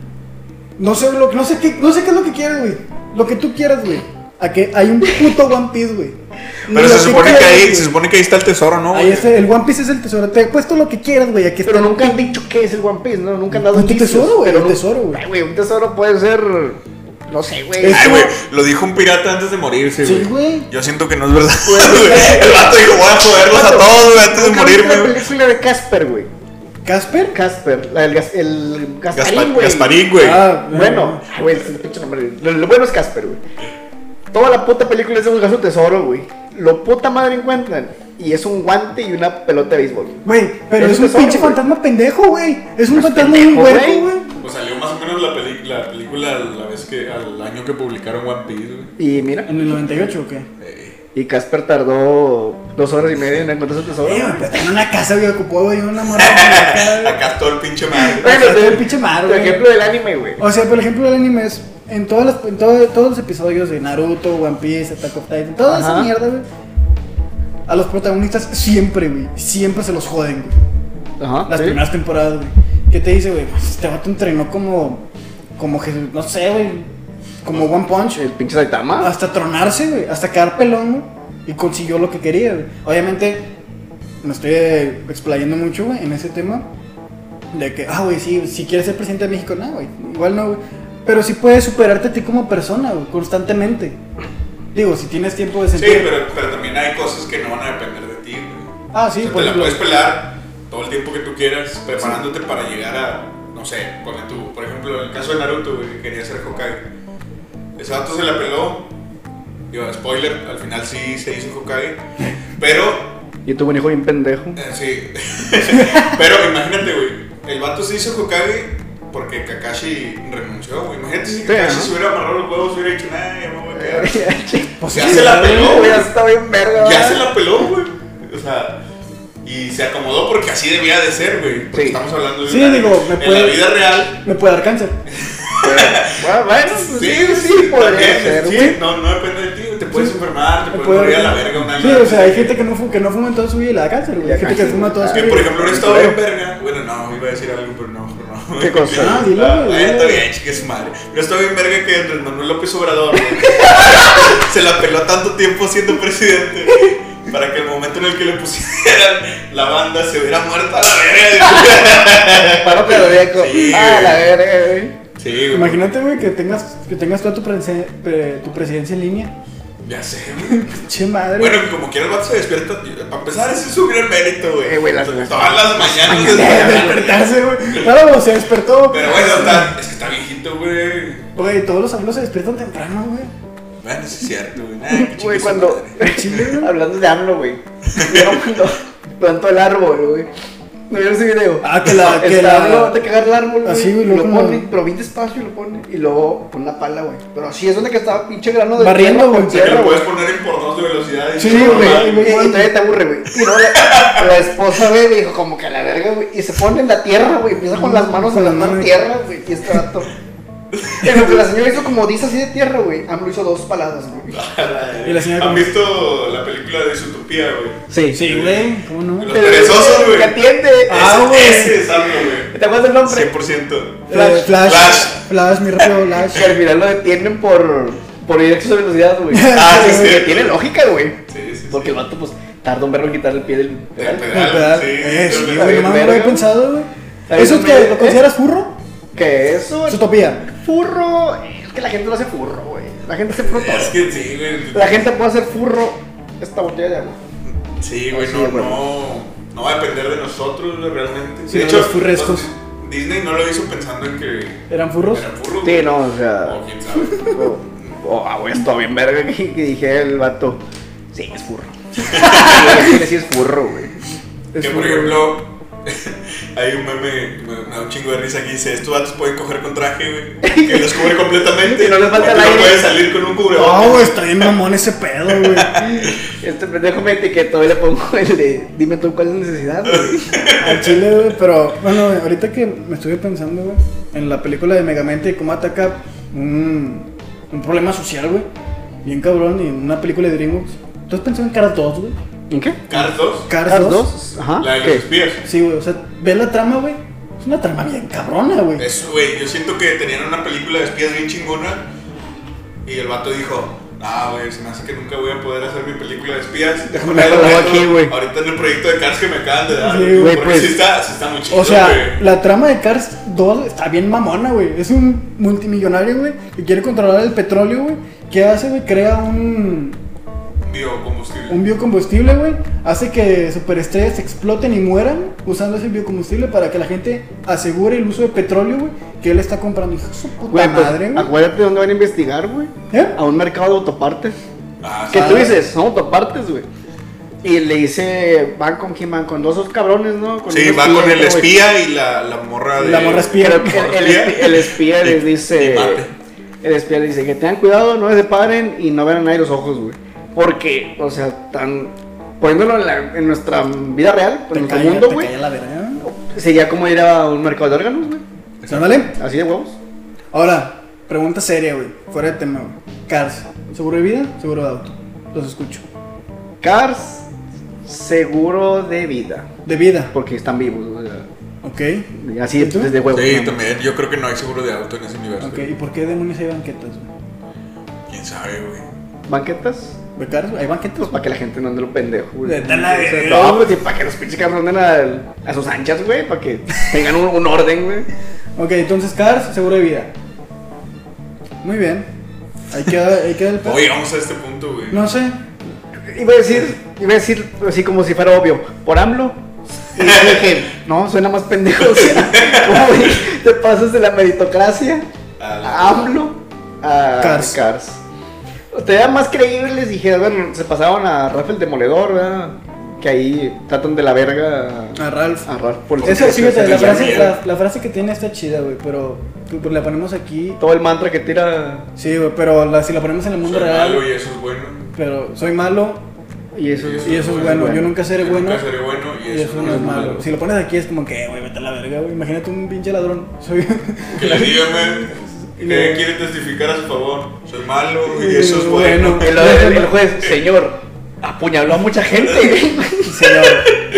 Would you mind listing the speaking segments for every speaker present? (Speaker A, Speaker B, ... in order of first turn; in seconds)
Speaker A: 0.8-7.9, 8.9-12.4, 13.5-15.2, 17.8-18.3, 20.0-20.7, 26.9-27.4, 30.2-31.2, 40.2-44.3, 49.5-50.5, 54.0-57.2, 58.2-59.6, 60.4-66.5, 67.7-70.6, 71.5-75.0, 75.6-76.9, 77.4-78.2, 79.0-83.5, 84.2-86.7, 87.5-94.0, 94.7-96.1, 98.9-99.8, 115.8-116.1, 124.8-126.1, 132.5-135.0, 140.7-145.4, 148.9-150.2, 165.5-169.3, 170.5-171.6, 176.0-179.7, 181.3-183.3, 186.0-186.7, 191.6-193.0, 193.6-194.7, 198.8-199.8, 201.4-202.7, 207.7-208.9, 215.0-215.7, 218.1-219.4, 220.9-221.8, 224.1-226.6, 229.3-230.2, 234.3-238.8, 239.9-240.4, 251.5-252.5, 254.7-255.3, 262.2-262.8, 273.5-275.9, 280.6-288.5, 289.0-292.2, 292.9-294.1, 295.4-298.9, 307.0-307.5, 309.8-310.4, 311.5-320.0, 321.5-331.3, 332.9-333.2, 335.1-335.6, 342.8-343.8, 354.5-356.1, 358.7-359.2, 360.3-365.9, 369.6-370.1, 371.6-372.9, 375.4-377.1, 380.2-381.2, 382.4-383.6, 388.6-390.1, 391.6-392.1, 392.7-393.9, 394.9-395.4, 407.2-407.6, 415.0-415.5, 416.0-420.6, 422.0-424.1, 424.9-426.0, 427.0-428.7, 429.3-436.0, 438.1-439.9, 443.0-443.7
Speaker B: 6.7-9.4, 17.9-25.3, 29.1-30.5, 44.4-48.9, 50.6-51.0, 56.0-58.6, 95.8-106.9, 107.8-108.9, 109.7-113.2, 114.5-124.2, 124.9-126.1, 126.8-128.8, 129.4-134.2, 135.1-142.6, 145.1-164.3, 165.2-165.9, 169.8-170.7, 171.4-178.0, 178.9-181.3, 183.8-186.0, 187.9-188.4, 199.5-202.3, 203.4-204.3, 210.7-211.3, 214.3-222.5, 223.0-226.4, 229.5-230.6, 231.3-232.0, 234.0-235.9, 243.4-245.1, 247.5-257.4, 262.1-262.9, 264.6-274.5, 275.3-276.2, 279.9-281.1, 292.9-293.5, 294.6-295.4, 298.8-301.9, 302.9-312.2, 320.6-321.7, 334.8-335.6, 340.5-346.1, 358.6-359.1, 373.1-375.7, 378.1-378.9, 393.6-395.0, 400.0-400.4, 402.0-402.9, 405.4-406.1, 415.9-417.3, 423.4-424.9, 426.7-430.2, 434.1-439.4
Speaker C: 11.7-18.2, 21.6-26.3, 27.3-30.1, 30.7-33.4, 34.3-40.2, 40.8-41.6, 42.9-44.1, 49.0-50.0, 51.1-54.7, 58.1-60.4, 65.7-66.1, 71.2-71.8, 77.9-79.1, 113.5-114.6, 121.5-121.9, 123.7-127.3, 131.7-132.0, 135.6-138.8, 144.2-146.2, 148.6-149.3, 162.5-165.0, 174.6-177.0, 184.9-190.3, 190.9-200.0, 201.4-210.1, 211.0-214.4, 217.9-218.2, 219.3-221.7, 222.5-223.3, 224.1-224.5, 226.3-231.2, 231.7-234.3, 235.3-236.5, 237.3-238.2, 239.2-244.0, 244.7-247.2, 248.1-248.8, 255.6-260.6, 261.1-264.0, 264.5-265.2, 270.4-272.9, 276.0-280.3, 292.5-292.8, 293.7-295.1, 307.0-308.1, 310.2-310.8, 330.5-334.4, 335.1-336.7, 337.4-341.6, 343.4-346.1, 346.6-355.3, 356.0-358.2, 359.1-359.8, 366.6-367.3, 367.9-369.5, 370.1-371.3, 372.2-373.6, 379.3-380.0, 381.0-388.1, 396.1-399.4, 399.9-405.1, 405.6-408.0, 408.7-417.3, 420.6-421.9, 426.5-427.9, 429.6-430.2, 439.2-443.5